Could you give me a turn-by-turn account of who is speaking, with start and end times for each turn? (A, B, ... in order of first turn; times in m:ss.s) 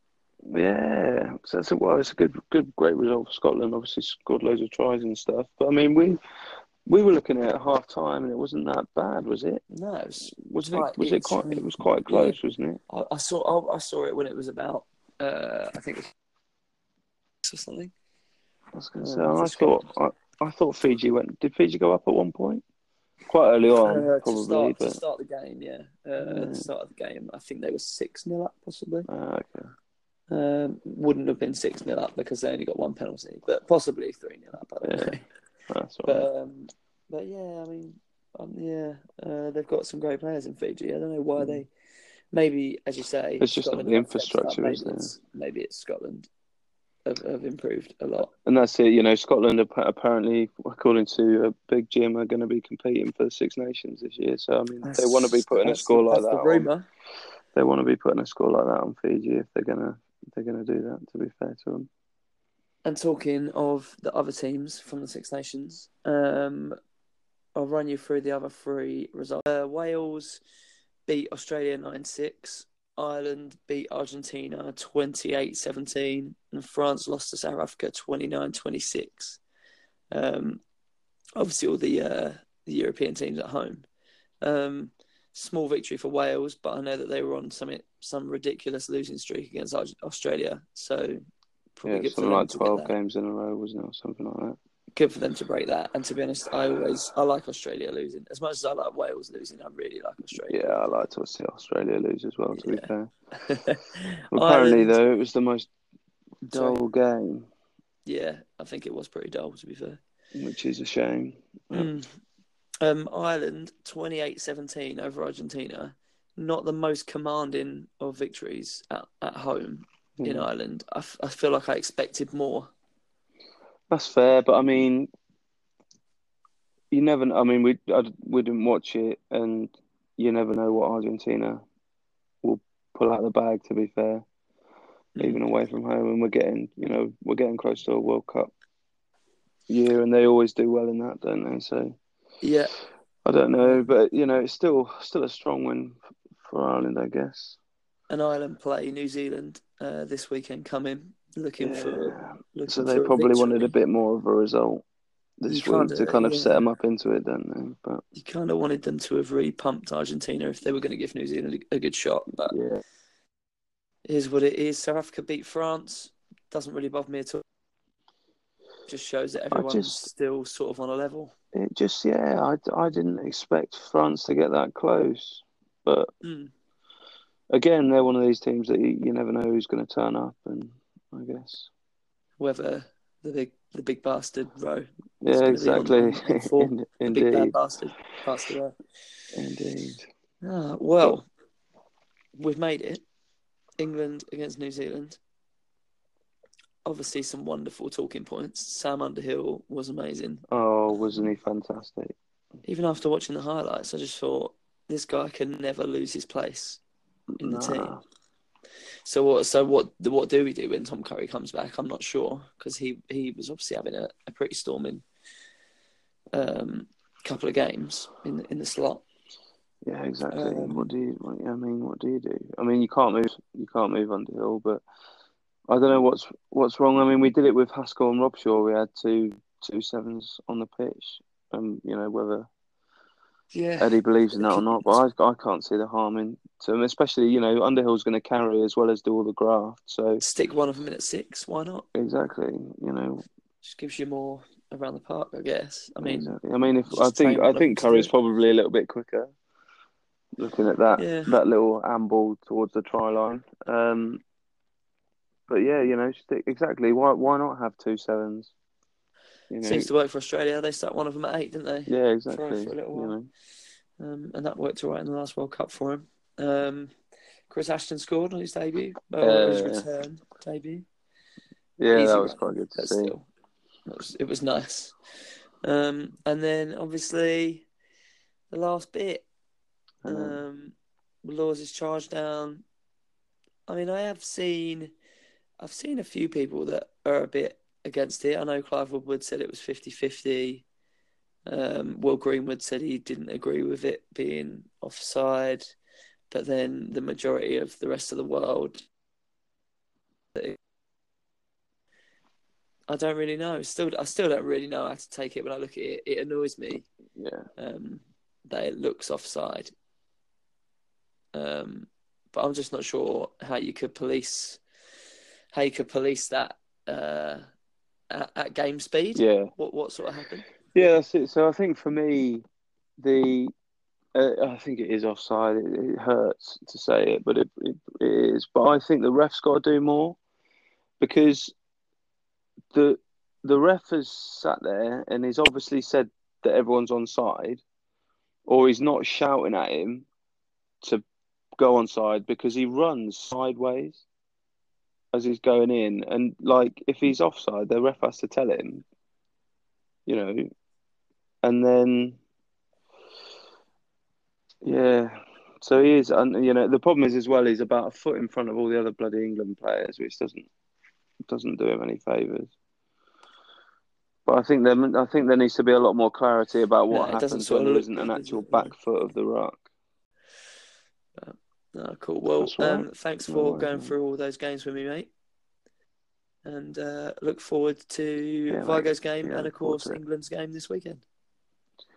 0:00.5-0:06.2 A
0:06.9-0:09.6 A
0:09.7-0:16.1 B
0:10.3-0:12.8 A
0:17.4-0:17.9 B
0:18.8-0:22.6 A
0:19.0-0:19.8 B
0:23.3-0:25.0 A
0:23.8-0:29.1 B
0:26.2-0:26.6 A
0:29.1-0:29.7 A
0:30.3-0:35.3 B
0:34.8-0:35.2 A
0:35.7-0:36.2 A
0:36.0-0:41.7 B
0:42.3-0:46.3 B
0:43.4-0:45.1 A
0:47.0-0:48.3 B
0:48.4-0:56.7 A
0:54.8-0:56.9 B
0:57.5-1:01.9 A
1:02.8-1:06.8 B
1:07.6-1:10.4 B
1:11.1-1:19.4 B
1:20.1-1:20.6 B
1:21.4-1:23.8 B
1:24.4-1:31.2 B
1:31.8-1:32.9 B
1:31.9-1:34.6 A
1:35.0-1:40.8 B
1:40.5-1:43.1 A
1:42.5-1:45.0 B
1:44.3-1:45.7 A
1:46.4-1:47.5 A
1:46.5-1:46.8 B
1:48.1-1:50.0 B
1:50.4-1:52.0 A
1:51.7-1:52.1 B
1:52.8-2:02.7 B
2:00.2-2:00.5 A
2:03.9-2:05.1 A
2:06.9-2:11.6 A
2:12.4-2:14.2 A
2:15.2-2:15.4 B
2:15.2-2:18.5 A
2:19.7-2:22.0 A
2:22.4-2:22.7 B
2:23.2-2:27.6 A
2:23.6-2:23.9 B
2:28.1-2:33.7 B
2:31.6-2:34.8 A
2:35.4-2:38.0 A
2:35.5-2:36.6 B
2:38.1-2:42.6 B
2:42.5-2:42.8 A
2:44.0-2:47.4 B
2:48.9-2:51.3 B
2:49.5-2:50.0 A
2:51.5-2:56.1 A
2:56.2-2:56.5 B
2:57.5-3:01.7 A
3:02.4-3:08.8 B
3:05.2-3:07.6 A
3:09.3-3:10.0 A
3:10.4-3:11.2 B
3:12.4-3:13.0 B
3:13.8-3:15.2 B
3:16.8-3:21.3 B
3:20.5-3:22.1 A
3:22.6-3:26.8 B
3:27.4-3:28.0 A
3:27.4-3:27.9 B
3:29.0-3:35.0 B
3:36.3-3:39.0 B
3:39.8-3:44.8 A
3:40.3-3:40.9 B
3:45.7-3:52.5 A
3:53.5-3:55.0 B
3:53.8-4:00.2 A
4:00.2-4:01.9 B
4:02.0-4:03.2 A
4:03.6-4:08.1 B
4:06.0-4:09.3 A
4:10.4-4:14.2 A
4:11.0-4:11.3 B
4:15.5-4:18.5 A
4:19.5-4:19.9 A
4:19.6-4:23.2 B
4:21.9-4:23.3 A
4:24.0-4:26.9 B
4:27.5-4:30.8 B
4:29.2-4:29.9 A
4:31.8-4:33.1 A
4:31.9-4:33.3 B
4:33.9-4:35.0 B
4:35.6-4:37.6 B
4:38.5-4:39.3 B
4:40.1-4:40.4 A
4:40.1-4:40.7 B
4:41.2-4:42.6 B
4:43.7-4:44.9 B
4:45.6-4:50.6 B
4:51.5-4:55.7 B
4:56.3-4:58.8 B
5:02.9-5:06.9 B
5:07.2-5:07.5 A
5:07.6-5:09.7 B
5:11.3-5:14.6 B
5:15.5-5:17.5 B
5:18.1-5:20.5 B
5:19.2-5:19.5 A
5:20.7-5:22.4 A
5:23.0-5:23.5 A
5:24.2-5:30.2 A
5:31.0-5:31.5 A
5:32.7-5:37.6 A
5:38.5-5:40.0 A
5:41.6-5:44.0 A
5:45.1-5:48.8 A
5:50.1-5:50.5 A
5:51.4-5:52.2 A
5:54.6-6:00.5 A
6:01.3-6:02.5 A
6:04.3-6:09.6 A
6:06.9-6:08.7 B
6:11.2-6:15.1 B
6:12.4-6:13.9 A
6:16.4-6:21.0 B
6:18.5-6:20.0 A